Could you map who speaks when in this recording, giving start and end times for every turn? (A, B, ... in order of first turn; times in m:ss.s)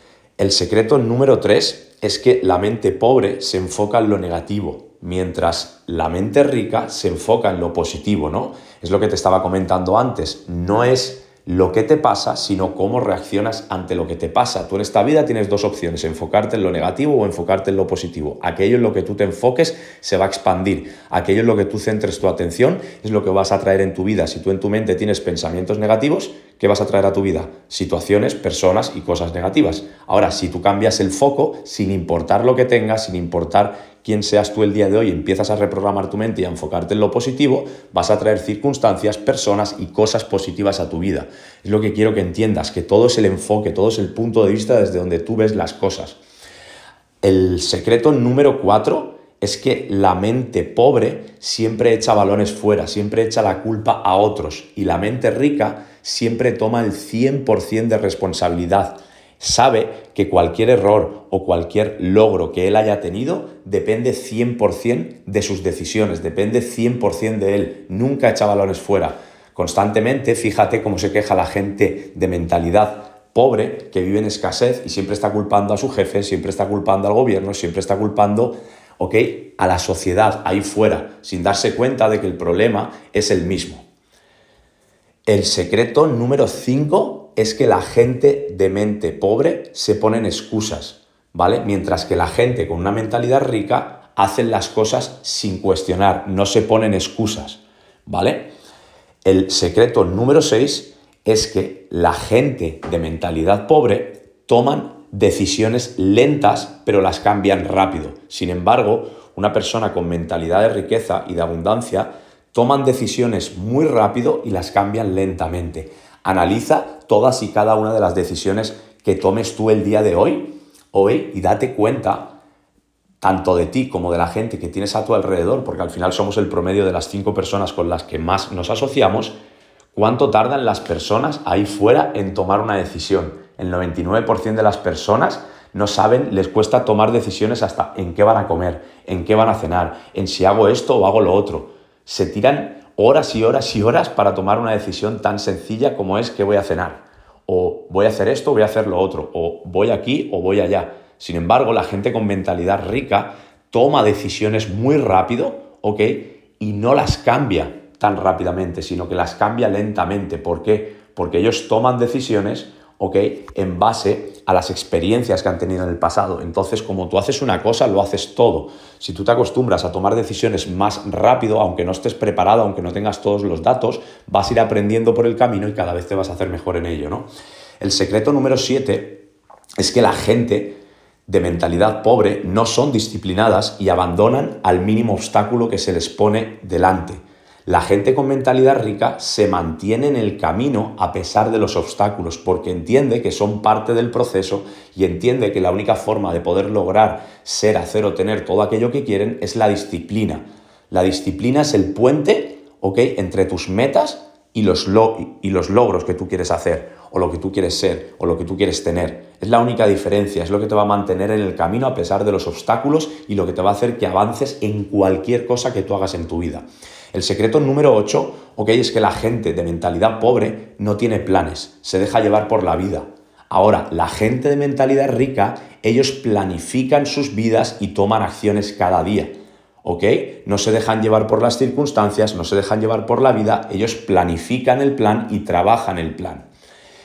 0:00.4-0:46.2 A
0:47.2-1:23.8 A
1:25.2-1:38.5 A
1:39.2-2:02.3 A
2:03.2-2:09.4 A
2:09.9-2:57.3 A
2:57.8-2:59.2 A
2:59.8-3:56.5 A